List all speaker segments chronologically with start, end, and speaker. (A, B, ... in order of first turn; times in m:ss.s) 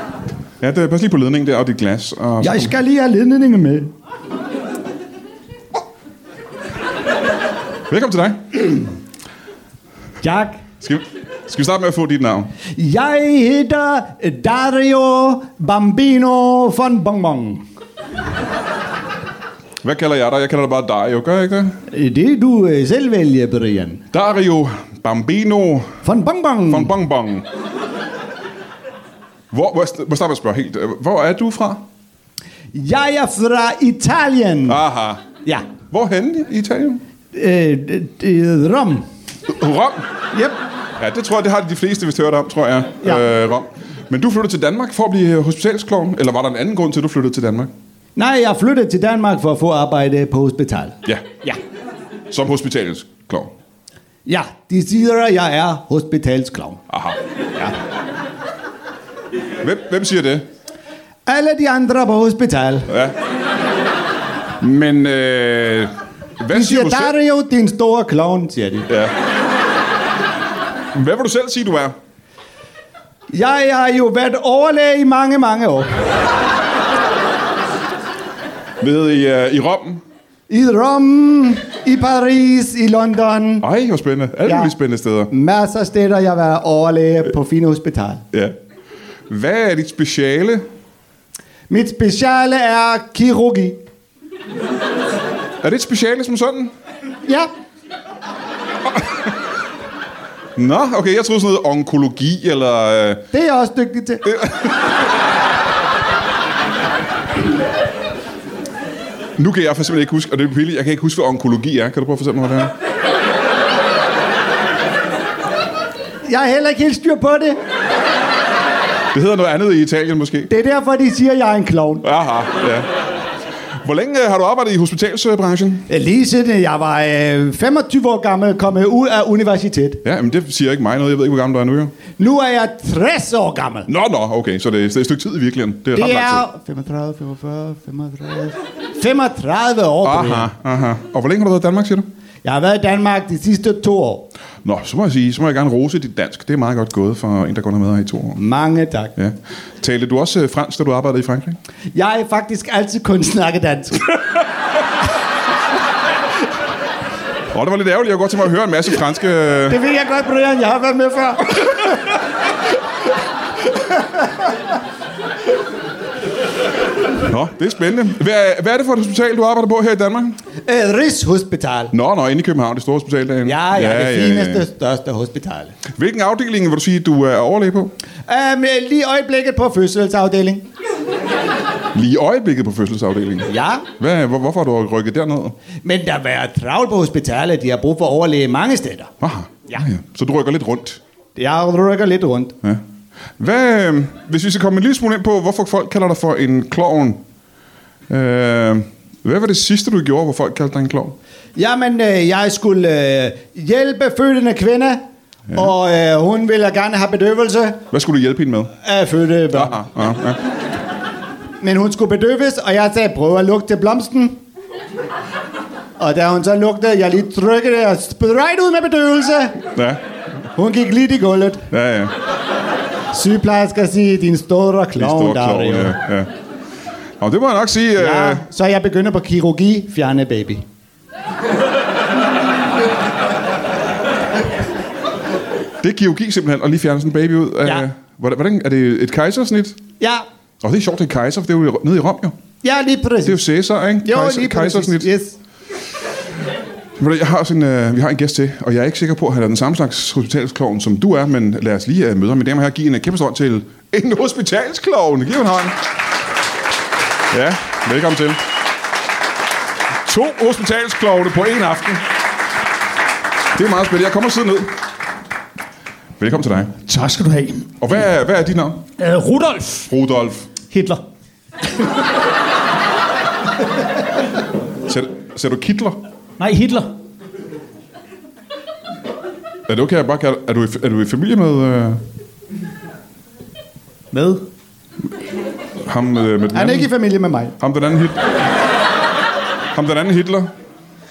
0:00.6-0:02.8 A
0:02.4-0:03.9 B
0:07.9-0:08.8 A
0:10.2-0:10.6 B
0:10.8-0:12.5 A
0:12.7-0:17.6 B
0:19.8-0:21.8 A
0:21.9-0:24.0 B
0:24.1-0:26.0 A
0:26.0-0:26.9 B
0:26.7-0:27.5 A
0:29.5-0:31.8 A
0:32.7-0:34.8 B
0:34.7-0:35.2 A
0:35.4-0:35.7 B
0:35.9-0:37.0 A
0:37.3-0:39.1 B
0:39.5-0:40.1 A
0:41.0-0:47.7 A
0:48.2-0:51.6 B
0:52.3-0:53.5 A
0:54.3-0:56.8 B
0:56.9-0:57.2 A
0:59.6-1:00.5 A
1:01.3-1:02.9 B
1:02.9-1:03.2 A
1:04.6-1:07.1 A
1:06.5-1:08.9 B
1:08.9-1:09.2 A
1:10.9-1:12.0 A
1:13.3-1:16.0 B
1:18.8-1:20.0 A
1:20.5-1:23.7 B
1:23.6-1:25.3 A
1:24.5-1:24.7 B
1:25.3-1:28.2 B
1:29.3-1:30.7 A
1:31.7-1:33.8 B
1:35.6-1:36.7 A
1:37.3-1:37.5 B
1:40.6-1:43.3 A
1:43.3-1:44.3 B
1:44.2-1:44.8 A
1:49.4-1:52.8 A
1:56.3-1:57.6 B
1:59.1-2:00.5 A
2:00.5-2:02.0 B
2:02.0-2:02.9 A
2:03.7-2:05.9 A
2:05.9-2:10.0 B
2:10.0-2:12.0 A
2:12.2-2:13.9 B
2:13.9-2:16.4 A
2:15.9-2:20.5 B
2:20.0-2:22.1 A
2:22.4-2:24.3 B
2:24.6-2:28.4 A
2:28.4-2:29.2 B
2:29.2-2:31.6 A
2:31.9-2:34.2 B
2:37.5-2:39.8 A
2:39.7-2:41.7 B
2:47.2-2:50.4 A
2:50.7-2:51.9 B
2:51.9-2:54.7 A
2:53.4-2:55.8 B
2:55.9-2:57.9 A
2:58.3-3:00.7 B
3:01.9-3:05.6 A
3:03.5-3:03.9 B
3:05.8-3:09.1 B
3:09.2-3:11.0 A
3:11.4-3:12.6 B
3:13.4-3:17.2 A
3:18.1-3:21.2 A
3:21.6-3:27.8 B
3:27.9-3:28.7 A
3:28.8-3:29.8 B
3:29.5-3:30.4 A
3:31.6-3:34.4 B
3:36.0-3:39.7 B
3:39.8-3:40.0 A
3:40.6-3:41.7 B
3:41.7-3:42.1 A
3:43.1-3:46.0 B
3:45.0-3:46.3 A
3:47.2-3:48.4 A
3:48.0-3:50.6 B
3:55.8-3:59.8 A
4:00.0-4:00.2 B
4:00.6-4:02.4 A
4:02.6-4:03.5 B
4:03.2-4:05.1 A
4:04.0-4:05.4 B
4:07.0-4:15.8 A
4:17.3-4:18.4 A
4:20.0-4:22.1 A
4:23.5-4:24.8 A
4:26.2-4:26.8 A
4:26.8-4:27.8 C
4:27.8-4:28.9 A
4:29.0-4:29.9 C
4:29.9-4:30.5 A
4:30.7-4:31.0 C
4:34.9-4:36.0 A
4:36.4-4:36.9 C
4:39.7-4:42.0 A
4:44.1-4:44.4 C
4:45.8-4:46.9 A
4:46.5-4:47.6 B
4:47.6-4:48.2 A
4:49.7-4:50.5 A